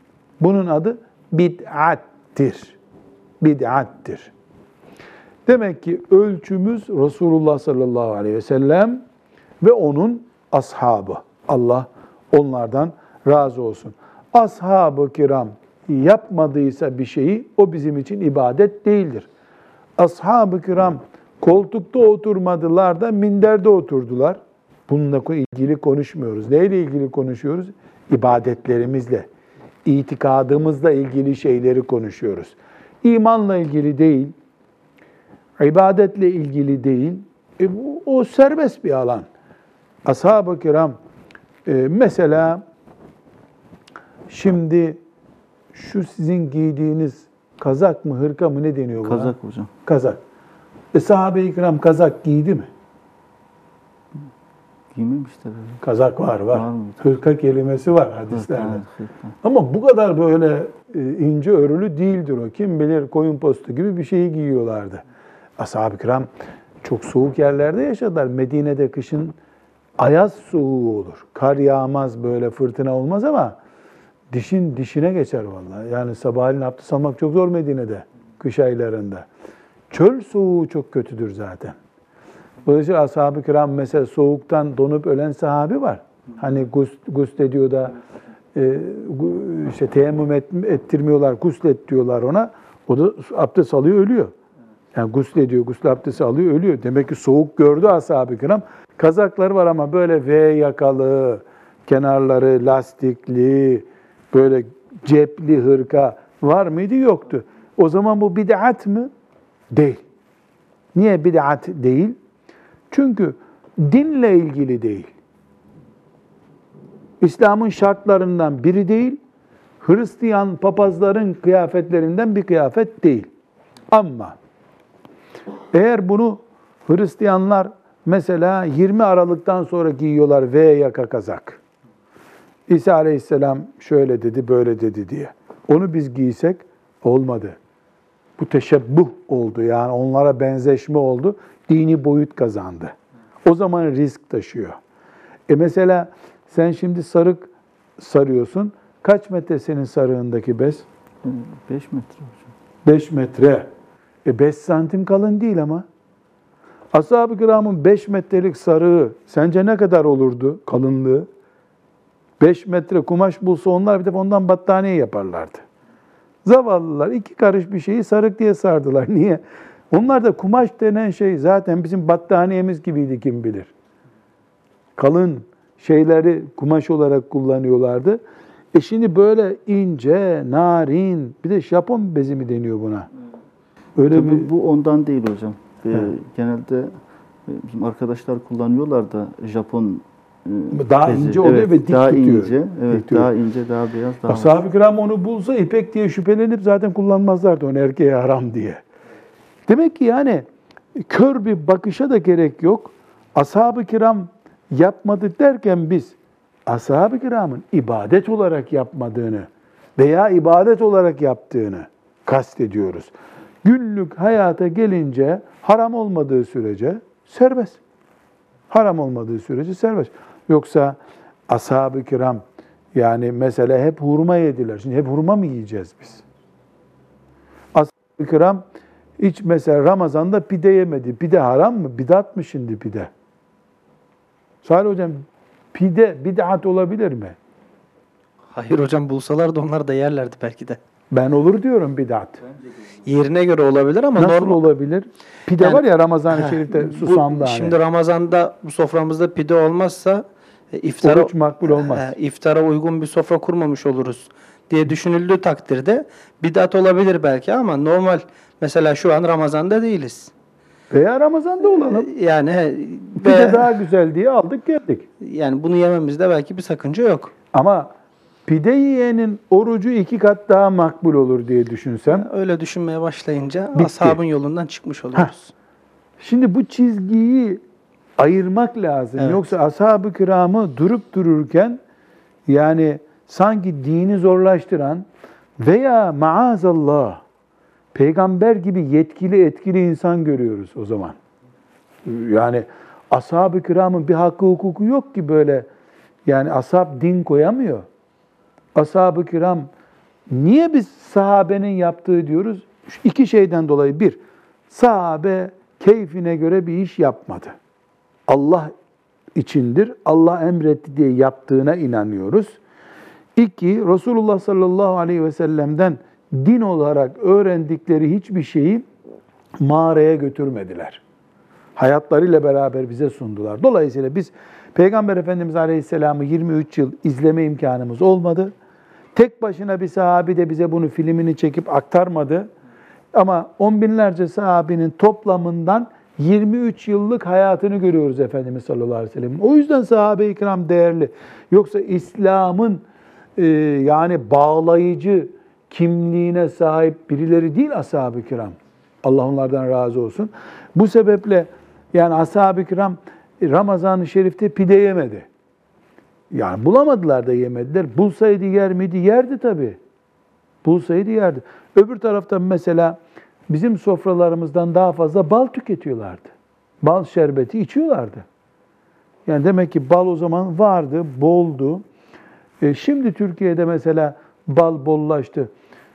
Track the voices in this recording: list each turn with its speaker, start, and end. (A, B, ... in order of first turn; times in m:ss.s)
0:00.4-0:02.8 A
0:03.4-0:04.3 A
0:05.5-0:09.0 A
0:09.6-0:19.3 A
0:20.0-0:29.3 A
0:29.8-0:34.4 A
0:35.6-0:39.3 A
0:40.0-0:41.0 A
0:41.7-0:42.6 A
0:44.3-0:45.0 A
0:45.7-0:49.3 A
0:49.0-0:49.7 B
0:49.8-0:50.2 A
0:50.9-0:52.7 A
0:54.9-0:55.8 B
0:55.8-0:58.8 A
0:56.5-0:57.0 B
0:58.3-0:59.3 B
0:59.4-1:05.0 A
1:05.6-1:06.3 A
1:06.8-1:09.4 A
1:10.0-1:13.6 A
1:14.3-1:19.3 A
1:19.9-1:21.8 A
1:22.6-1:28.0 A
1:28.5-1:34.3 A
1:34.9-1:49.1 A
1:49.7-1:50.0 A
1:50.9-1:52.2 A
1:52.9-1:55.1 A
1:57.2-1:59.2 A
1:59.8-2:03.3 A
2:03.9-2:04.4 A
2:05.7-2:11.6 A
2:12.7-2:17.6 A
2:18.4-2:24.8 A
2:25.5-2:30.9 A
2:31.2-2:32.5 B
2:32.8-2:33.7 A
2:34.2-2:35.8 A
2:36.9-2:41.3 A
2:42.4-2:45.6 A
2:46.4-2:53.7 A
2:55.0-2:58.2 A
2:58.7-3:03.1 A
3:04.0-3:04.5 A
3:04.1-3:14.5 B
3:10.7-3:13.3 A
3:14.3-3:18.8 A
3:19.7-3:26.2 A
3:26.7-3:33.1 A
3:33.6-3:37.8 A
3:38.7-3:41.0 A
3:41.5-3:42.4 A
3:42.9-3:46.2 A
3:47.7-3:48.6 A
3:49.2-3:53.1 A
3:54.6-3:57.4 A
3:58.5-4:00.8 C
4:01.1-4:02.4 A
4:03.0-4:04.6 C
4:04.2-4:07.8 A
4:05.6-4:20.3 C
4:11.0-4:12.1 A
4:20.9-4:22.1 A
4:21.7-4:23.7 C
4:23.2-4:25.1 A
4:25.2-4:27.3 C
4:27.5-4:27.9 A
4:28.5-4:32.3 A
4:32.1-4:35.5 C
4:33.8-4:34.2 A
4:36.2-4:37.6 A
4:38.2-4:41.8 A
4:39.2-4:39.4 C
4:42.5-4:45.1 A
4:45.6-4:47.2 A
4:47.9-4:51.2 A
4:52.0-4:55.7 A
4:56.3-4:57.9 A
4:58.8-4:59.7 A
5:00.3-5:04.2 A
5:04.7-5:07.6 A
5:08.3-5:08.7 A
5:09.4-5:12.6 A
5:13.4-5:18.8 A
5:19.6-5:21.0 A
5:21.8-5:28.5 A
5:29.2-5:32.5 A
5:33.1-5:42.8 A
5:43.4-5:55.3 A
5:56.3-5:59.8 A
6:00.6-6:03.0 A
6:03.5-6:06.3 A
6:06.8-6:08.3 A
6:09.3-6:11.8 A
6:12.6-6:15.5 A